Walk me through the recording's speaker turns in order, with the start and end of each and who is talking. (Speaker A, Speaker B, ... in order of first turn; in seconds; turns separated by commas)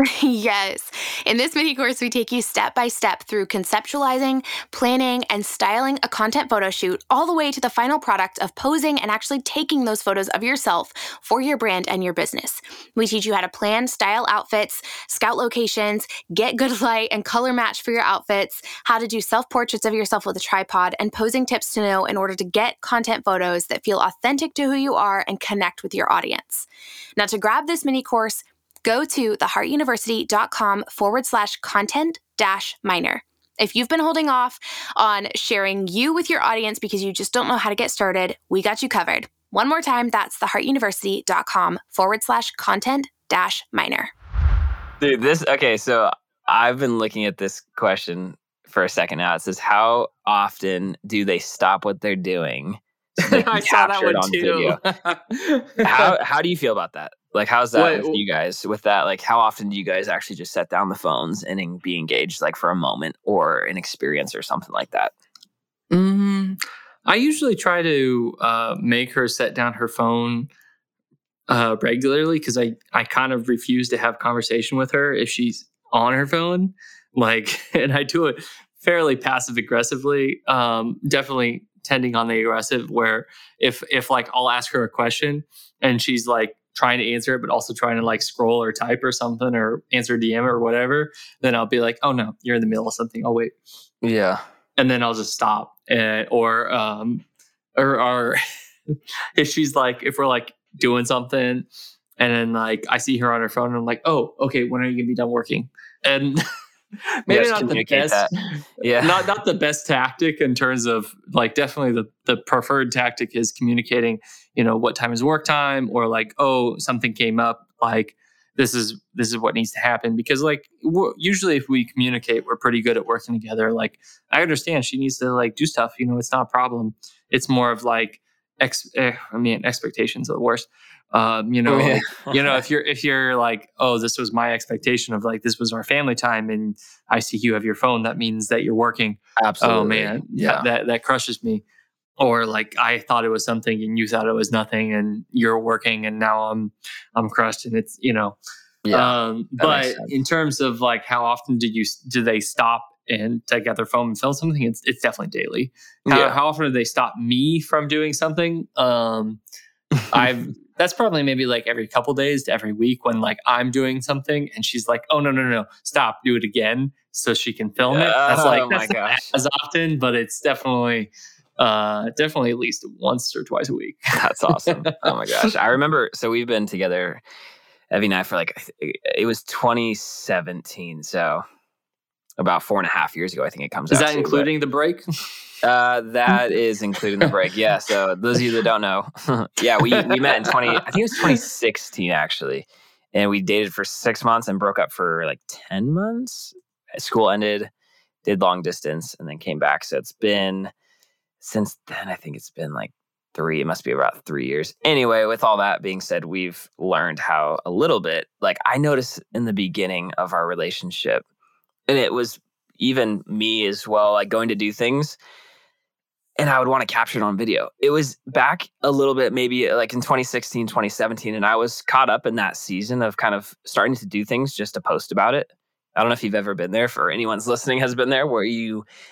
Speaker A: 0.1-44.1, Speaker B: 45.0-54.8, Speaker C: 53.2-56.1, Speaker B: 55.8-65.1, Speaker C: 57.7-58.2, Speaker C: 65.9-70.5, Speaker C: 71.5-93.5, Speaker B: 94.0-94.4, Speaker C: 94.8-97.2, Speaker C: 97.8-101.7, Speaker C: 102.2-106.4, Speaker C: 107.2-141.6, Speaker B: 107.3-109.2, Speaker B: 131.7-132.6, Speaker B: 139.4-140.7, Speaker C: 142.2-148.4, Speaker B: 148.8-150.1, Speaker C: 148.9-159.4, Speaker B: 156.1-156.4, Speaker C: 160.1-174.1, Speaker B: 167.8-169.3, Speaker B: 174.1-177.2, Speaker B: 177.9-181.4, Speaker B: 182.4-184.5, Speaker C: 183.9-185.0, Speaker B: 185.6-197.7, Speaker C: 189.9-191.4, Speaker B: 198.2-200.7, Speaker B: 201.4-211.2, Speaker B: 211.9-215.2, Speaker B: 216.4-228.8